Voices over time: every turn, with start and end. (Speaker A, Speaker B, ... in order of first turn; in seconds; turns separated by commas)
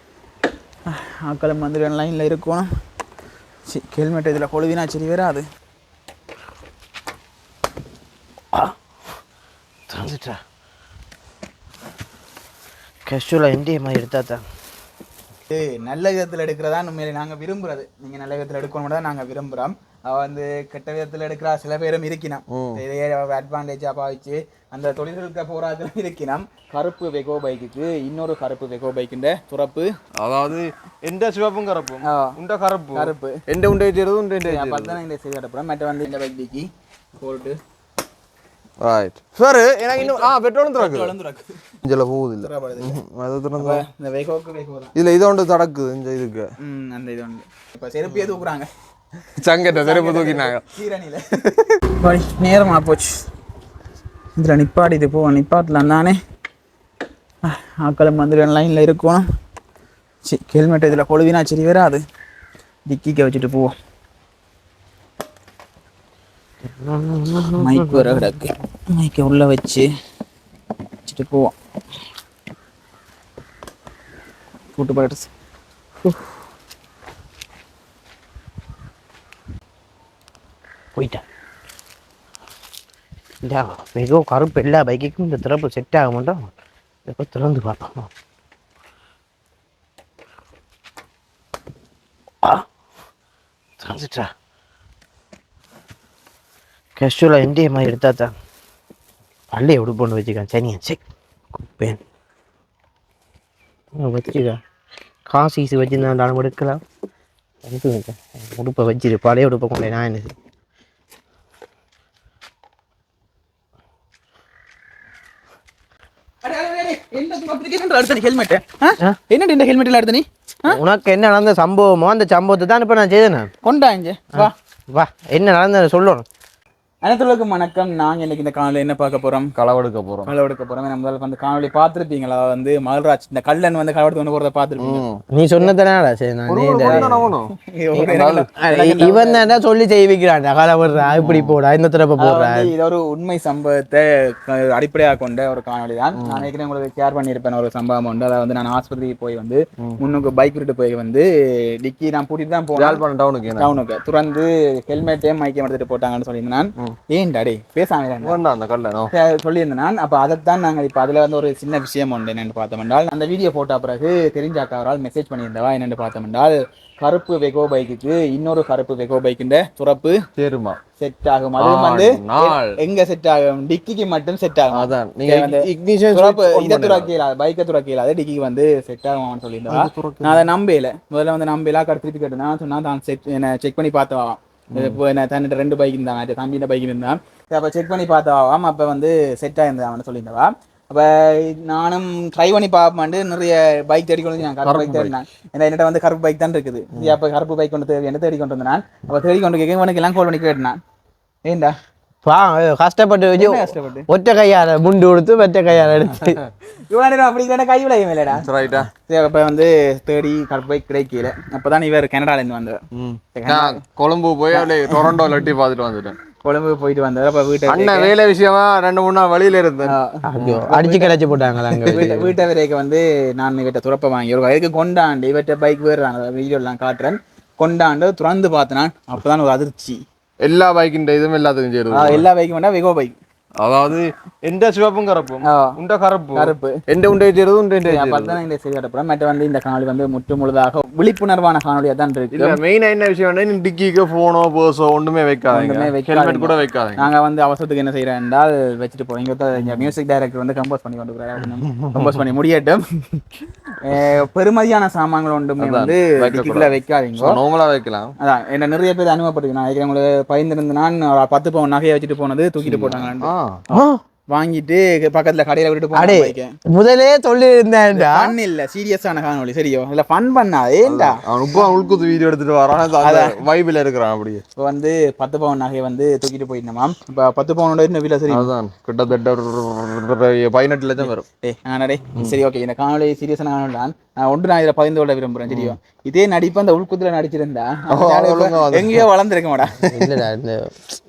Speaker A: 0.9-2.7, Speaker A: 3.7-5.4, Speaker B: 9.9-10.4, Speaker B: 13.1-14.4, Speaker A: 15.5-29.9, Speaker C: 22.5-22.8, Speaker C: 30.2-35.0, Speaker A: 32.0-32.4, Speaker A: 32.9-33.4, Speaker A: 34.5-37.6, Speaker C: 38.8-41.1, Speaker A: 39.9-41.5, Speaker C: 41.8-43.8, Speaker A: 42.4-43.0, Speaker A: 43.6-44.9, Speaker C: 45.0-46.4, Speaker A: 46.6-48.7, Speaker C: 49.4-50.6, Speaker A: 49.7-51.2, Speaker C: 51.5-51.8, Speaker A: 52.0-53.2, Speaker A: 54.4-56.1, Speaker A: 57.4-59.2, Speaker A: 60.2-62.0, Speaker A: 62.9-63.7, Speaker B: 66.8-68.2, Speaker A: 67.6-69.9, Speaker A: 71.0-71.5, Speaker A: 74.7-75.3, Speaker B: 80.9-81.2, Speaker B: 83.4-86.5, Speaker B: 87.0-88.1, Speaker B: 93.8-94.3, Speaker B: 97.0-98.3, Speaker B: 99.5-101.0, Speaker B: 101.5-102.0, Speaker B: 104.0-104.6, Speaker B: 105.3-106.8, Speaker B: 107.6-110.3, Speaker A: 116.4-120.8, Speaker B: 120.7-123.5, Speaker A: 123.6-124.5, Speaker B: 124.3-126.2, Speaker A: 127.0-129.5, Speaker C: 129.5-130.3, Speaker A: 130.2-135.0, Speaker C: 134.8-135.2, Speaker B: 135.3-137.2, Speaker C: 136.5-137.5, Speaker A: 136.8-139.5, Speaker B: 137.9-142.7, Speaker C: 138.1-138.5, Speaker C: 141.2-141.6, Speaker A: 142.2-151.3, Speaker C: 146.2-146.5, Speaker A: 151.8-158.4, Speaker C: 152.8-153.7, Speaker C: 158.2-159.1, Speaker A: 159.1-170.2, Speaker C: 170.4-170.8, Speaker A: 171.0-200.8, Speaker C: 171.6-172.8, Speaker C: 174.7-177.1, Speaker C: 179.7-180.4, Speaker C: 184.7-185.0, Speaker C: 194.6-195.1, Speaker A: 201.4-201.7, Speaker B: 202.2-206.4, Speaker A: 203.3-204.1, Speaker A: 206.9-208.5, Speaker C: 208.4-208.9, Speaker A: 209.1-212.8, Speaker C: 212.9-216.2, Speaker A: 213.3-213.8, Speaker A: 214.5-215.4, Speaker A: 216.4-218.1, Speaker C: 217.7-219.9, Speaker A: 219.8-221.2, Speaker B: 220.3-222.3, Speaker A: 221.8-230.0, Speaker C: 230.4-232.2, Speaker A: 231.9-233.1, Speaker C: 233.6-238.4, Speaker A: 235.4-235.8, Speaker A: 236.3-236.8, Speaker A: 237.8-242.6, Speaker C: 242.3-247.1, Speaker A: 245.5-252.8, Speaker C: 249.6-249.9, Speaker C: 251.7-252.1, Speaker A: 253.8-257.4, Speaker C: 255.6-258.1, Speaker A: 258.2-266.5, Speaker C: 262.6-263.6, Speaker B: 263.7-264.0, Speaker B: 265.9-268.3, Speaker A: 267.9-271.8, Speaker C: 270.9-274.4, Speaker A: 273.0-273.4, Speaker A: 274.6-278.5, Speaker C: 278.3-281.2, Speaker A: 281.0-289.8, Speaker C: 285.5-285.8, Speaker C: 287.9-289.0, Speaker B: 289.9-290.7